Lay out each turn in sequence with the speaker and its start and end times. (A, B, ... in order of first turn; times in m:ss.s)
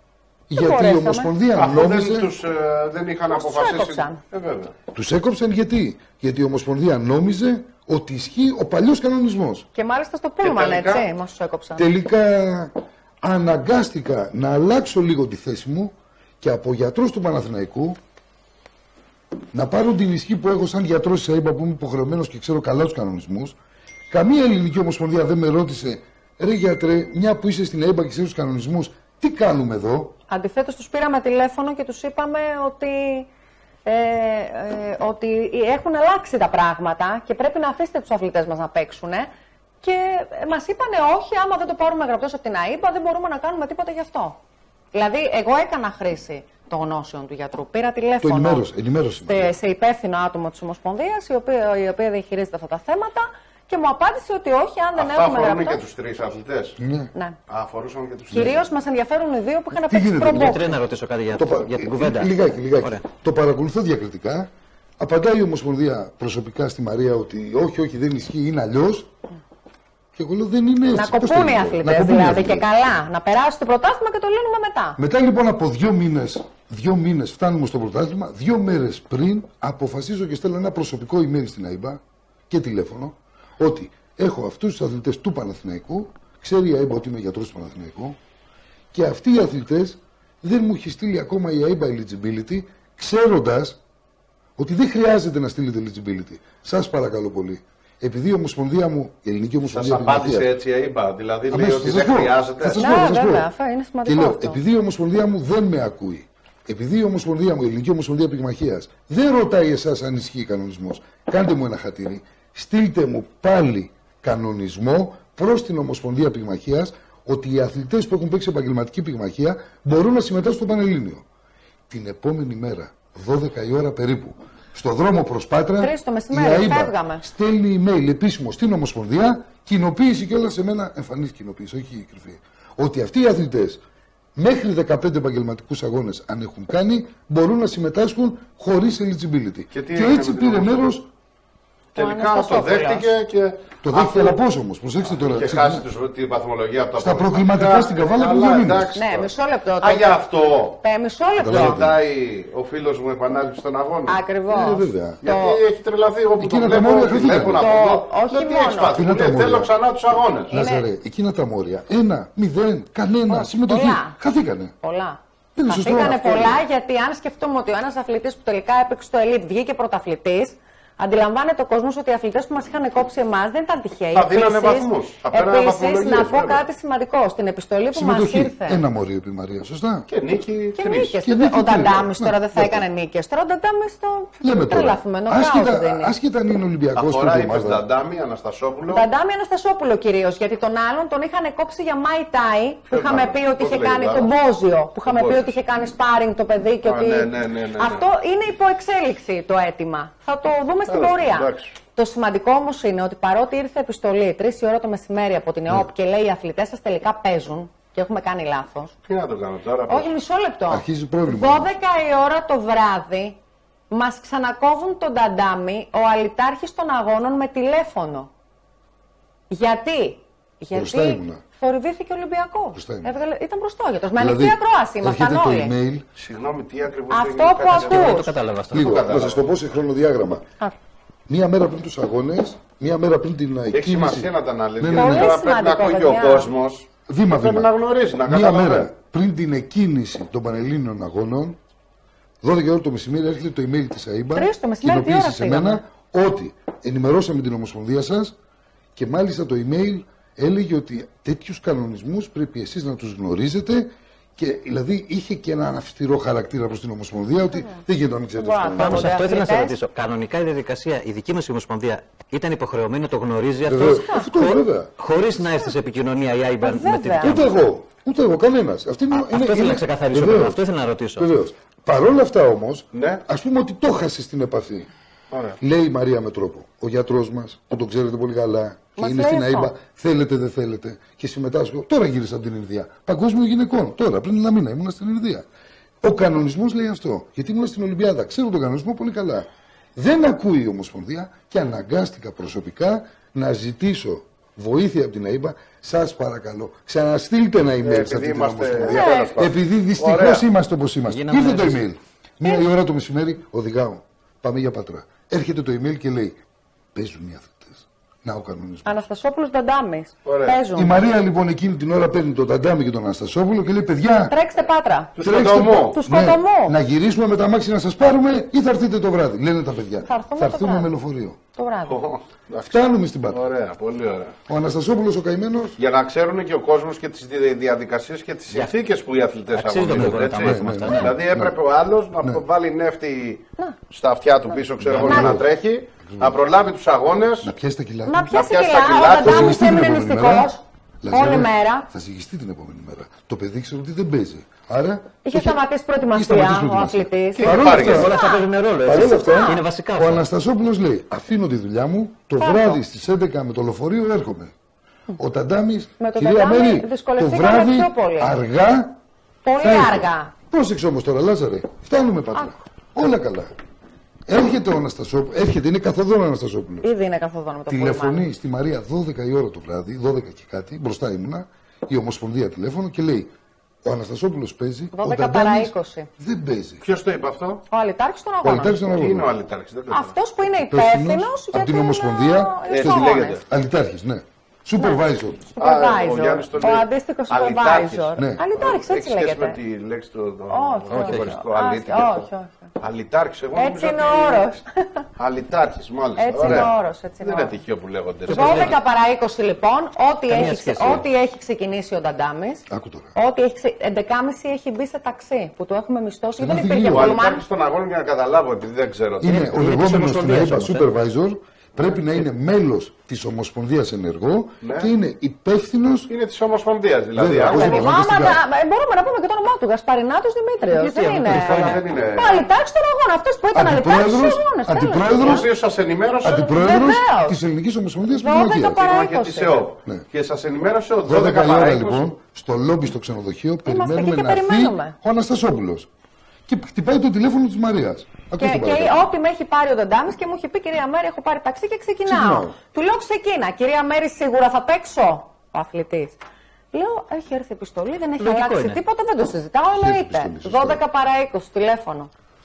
0:00.5-0:02.3 A
0:00.5-0:01.3 B
0:01.6-0:04.7 C
0:03.3-0:04.2 B
0:04.9-0:09.6 A
0:09.8-0:11.9 B
0:10.4-0:11.1 C
0:11.8-0:18.0 A
0:19.5-0:23.6 A
0:24.1-0:30.1 A
0:30.3-0:33.3 B
0:33.9-0:39.3 B
0:39.8-0:44.4 B
0:44.9-0:48.7 B
0:48.2-0:49.6 A
0:49.2-0:55.8 B
0:55.0-0:56.8 C
0:56.8-0:57.1 A
0:57.5-0:58.6 C
0:58.3-1:00.7 B
0:59.7-1:00.7 A
1:00.3-1:03.0 D
1:01.3-1:09.1 A
1:10.2-1:12.7 A
1:10.9-1:15.0 B
1:15.0-1:28.2 A
1:28.9-1:33.8 A
1:34.6-1:40.5 A
1:39.7-1:42.8 C
1:41.5-1:43.5 A
1:42.8-1:44.6 B
1:44.1-2:01.2 A
2:01.9-2:13.8 A
2:05.8-2:07.2 B
2:14.4-2:21.1 A
2:19.7-2:20.9 C
2:22.0-2:24.4 C
2:22.0-2:23.1 B
2:23.8-2:25.8 A
2:25.0-2:29.3 C
2:27.0-2:29.0 A
2:29.0-2:30.2 B
2:29.8-2:30.8 C
2:30.8-2:31.8 B
2:31.4-2:32.0 A
2:31.4-2:34.2 C
2:34.1-2:35.6 B
2:34.5-2:35.2 A
2:35.2-2:40.5 C
2:36.4-2:37.7 A
2:37.6-2:39.0 B
2:38.9-2:39.7 A
2:40.5-2:44.7 A
2:40.5-2:40.9 B
2:43.3-2:44.2 B
2:44.8-2:58.8 B
2:45.6-2:46.6 A
2:54.1-2:56.7 C
2:57.9-3:00.1 A
3:00.1-3:01.2 C
3:00.8-3:06.2 B
3:01.2-3:02.8 A
3:04.4-3:07.8 A
3:07.0-3:09.0 C
3:08.9-3:28.9 B
3:12.9-3:14.3 C
3:15.1-3:15.5 C
3:16.8-3:18.1 C
3:20.9-3:21.7 C
3:29.1-3:30.1 C
3:29.9-3:33.4 B
3:30.7-3:31.7 A
3:33.9-3:38.3 B
3:39.5-3:45.7 B
3:40.7-3:41.4 A
3:42.8-3:43.1 A
3:44.2-3:46.0 A
3:46.2-3:49.4 C
3:47.1-3:48.3 B
3:47.7-3:49.0 D
3:48.7-3:50.4 A
3:51.3-3:55.4 A
3:53.7-3:58.9 C
3:54.9-3:56.5 B
3:57.1-3:57.7 A
3:58.2-4:01.6 A
4:02.4-4:08.4 A
4:04.3-4:05.8 B
4:09.0-4:19.2 A
4:17.5-4:17.8 B
4:18.4-4:19.8 B
4:18.8-4:27.6 D
4:23.7-4:24.9 A
4:23.8-4:24.3 B
4:26.6-4:27.4 B
4:27.2-4:30.6 A
4:29.1-4:31.3 D
4:31.2-4:34.9 A
4:32.9-4:33.2 C
4:35.3-4:35.6 C
4:35.6-4:45.5 A
4:39.0-4:39.7 B
4:46.0-5:06.4 A
4:57.8-5:00.4 C
4:58.8-4:59.3 B
5:01.1-5:01.8 D
5:06.9-5:09.1 A
5:08.9-5:11.0 B
5:10.2-5:10.6 C
5:10.8-5:14.3 A
5:14.3-5:15.2 B
5:15.2-5:16.0 C
5:15.2-5:21.4 A
5:15.9-5:16.8 B
5:20.0-5:20.9 B
5:21.6-5:22.0 B
5:21.9-5:24.4 C
5:22.7-5:23.5 A
5:24.5-5:25.8 A
5:25.8-5:37.5 C
5:29.5-5:31.1 D
5:30.0-5:31.6 A
5:34.8-5:35.4 A
5:35.0-5:35.4 B
5:36.0-5:36.4 A
5:37.4-5:38.3 A
5:38.1-5:41.9 B
5:38.3-5:39.7 C
5:39.2-5:45.6 A
5:45.2-5:49.6 B
5:46.1-5:48.1 A
5:47.4-5:48.1 C
5:47.8-5:50.2 D
5:48.8-5:54.5 A
5:52.4-5:52.8 B
5:55.2-5:59.0 A
5:56.0-5:58.3 B
5:59.4-6:00.3 B
5:59.6-6:03.5 A
6:04.3-6:06.9 A
6:06.8-6:08.3 B
6:07.7-6:13.3 A
6:13.8-6:16.8 A
6:14.9-6:16.1 B
6:16.8-6:17.6 C
6:17.7-6:18.8 B
6:18.4-6:19.3 A
6:18.8-6:20.2 C
6:19.9-6:23.4 B
6:20.7-6:25.5 A
6:22.7-6:23.4 C
6:24.8-6:29.6 B
6:25.6-6:32.3 C
6:28.2-6:28.4 A
6:30.5-6:32.7 B
6:30.9-6:31.3 D
6:32.8-6:34.4 C
6:33.6-6:35.0 B
6:35.2-6:38.8 C
6:36.2-6:37.5 B
6:38.3-6:38.7 D
6:38.3-6:42.6 B
6:40.3-6:41.0 D
6:42.7-6:43.1 A
6:43.2-6:47.4 B
6:46.4-6:47.2 A
6:46.9-6:49.5 C
6:49.2-6:56.1 A
6:49.3-6:50.8 D
6:54.6-6:54.9 C
6:56.1-6:57.9 C
6:57.2-6:58.4 A
6:57.5-7:05.5 B
7:00.7-7:01.8 D
7:01.2-7:02.4 C
7:03.5-7:05.5 A
7:05.0-7:06.6 C
7:06.2-7:08.9 A
7:06.3-7:07.4 B
7:08.1-7:09.6 B
7:08.7-7:12.0 C
7:11.0-7:15.9 A
7:13.7-7:15.0 B
7:16.5-7:19.0 A
7:18.4-7:26.2 B
7:22.1-7:22.6 A
7:26.7-7:32.1 B
7:28.2-7:28.8 D
7:29.7-7:30.8 A